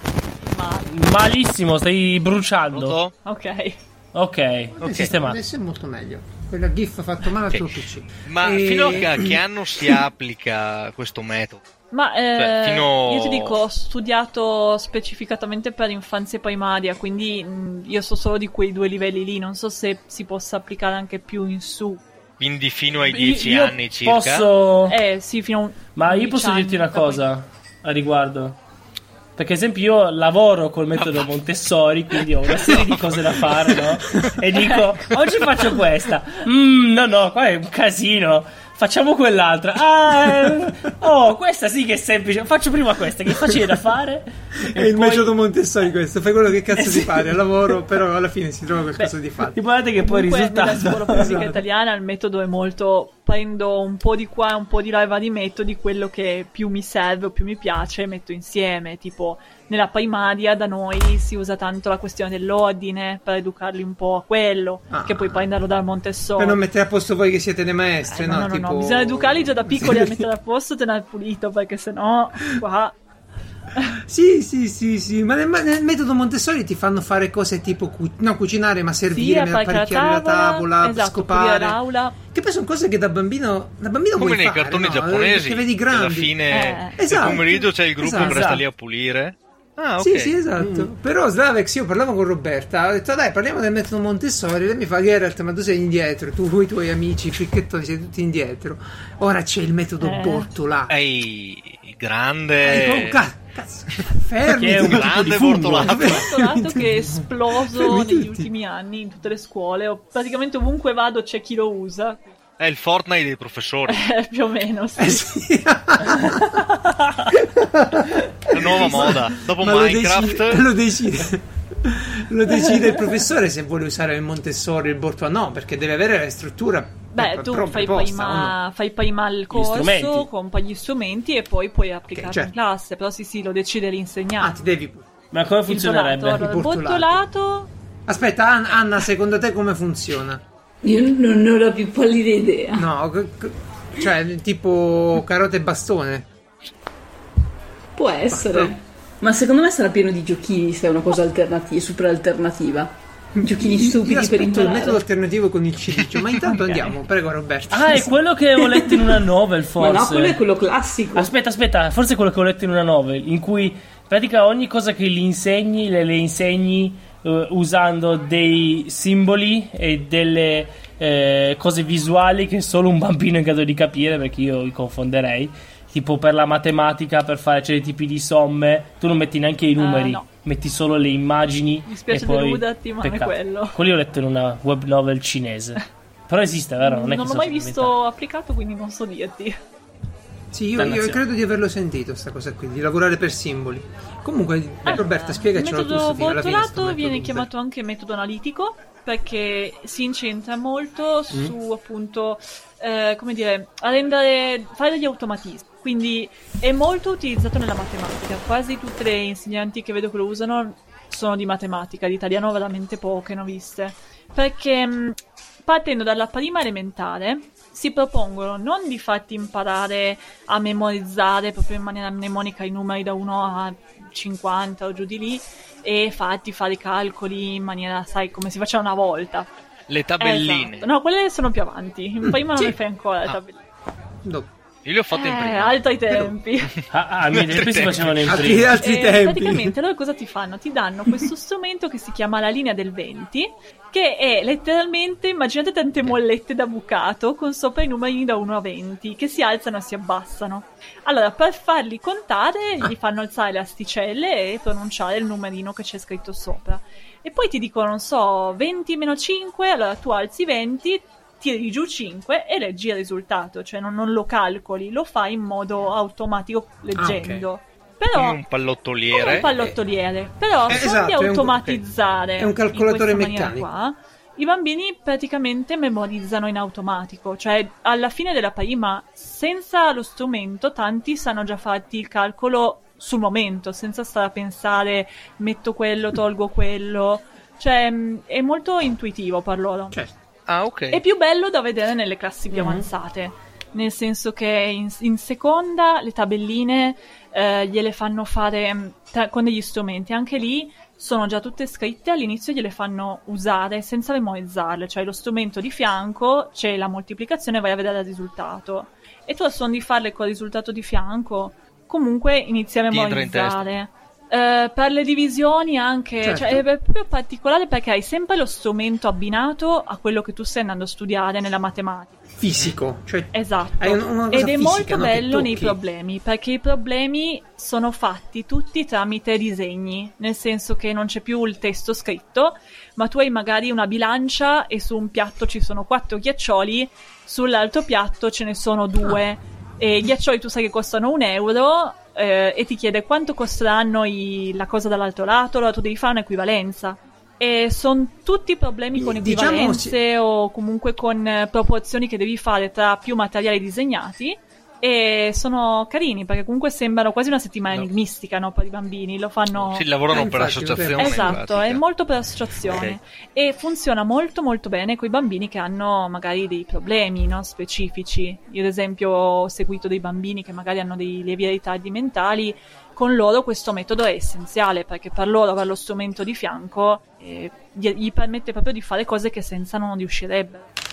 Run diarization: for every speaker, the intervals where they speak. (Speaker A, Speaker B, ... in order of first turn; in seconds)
Speaker A: 0.4-0.9, 3.2-3.8, 11.9-22.0, 23.1-23.6, 24.9-27.3, 50.0-66.6, 68.1-73.0, 79.1-82.2, 86.5-87.7, 100.0-100.5, 105.9-112.2, 113.9-115.3, 127.1-134.5, 135.7-137.7, 179.8-180.3, 181.9-183.8, 186.8-189.6, 194.8-229.5, 230.2-233.6, 235.1-236.7, 238.7-268.4, 269.1-290.0, 290.9-322.2, 323.3-359.9, 361.0-380.7
Speaker B: 0.9-3.0, 4.1-5.4, 23.4-25.0, 25.9-28.6, 29.4-45.3, 46.8-47.4, 49.5-51.5, 88.1-88.6, 104.5-106.0, 129.5-130.3, 135.3-136.5, 157.7-160.4, 161.2-187.9, 190.8-191.2, 236.9-238.8
Speaker C: 2.7-3.1, 4.8-5.1, 8.2-11.6, 12.4-13.6, 22.4-24.5, 31.0-31.3, 32.5-34.3, 84.2-90.3, 100.9-103.2, 104.7-106.2, 112.6-114.0, 118.5-120.7, 229.9-230.9, 234.8-238.6, 268.1-269.6, 290.5-291.0, 312.9-313.7, 359.6-361.8, 362.6-363.0
Speaker D: 4.8-9.4, 44.6-49.6, 51.2-51.6, 64.9-65.5, 66.4-70.3, 73.9-81.8, 82.3-88.6, 90.0-101.0, 102.6-108.5, 115.0-116.7, 117.3-128.6, 132.1-132.5, 134.4-135.1, 136.3-137.2, 138.1-140.4, 142.8-146.3, 148.3-148.8, 153.4-158.1, 190.5-197.5, 234.2-234.5, 238.3-239.8, 267.0-267.5, 270.7-271.8, 272.4-273.7, 316.2-316.6, 322.4-325.8, 349.0-350.0, 360.1-361.4
Speaker E: 140.8-142.9, 148.0-155.0, 158.6-159.2, 159.8-161.3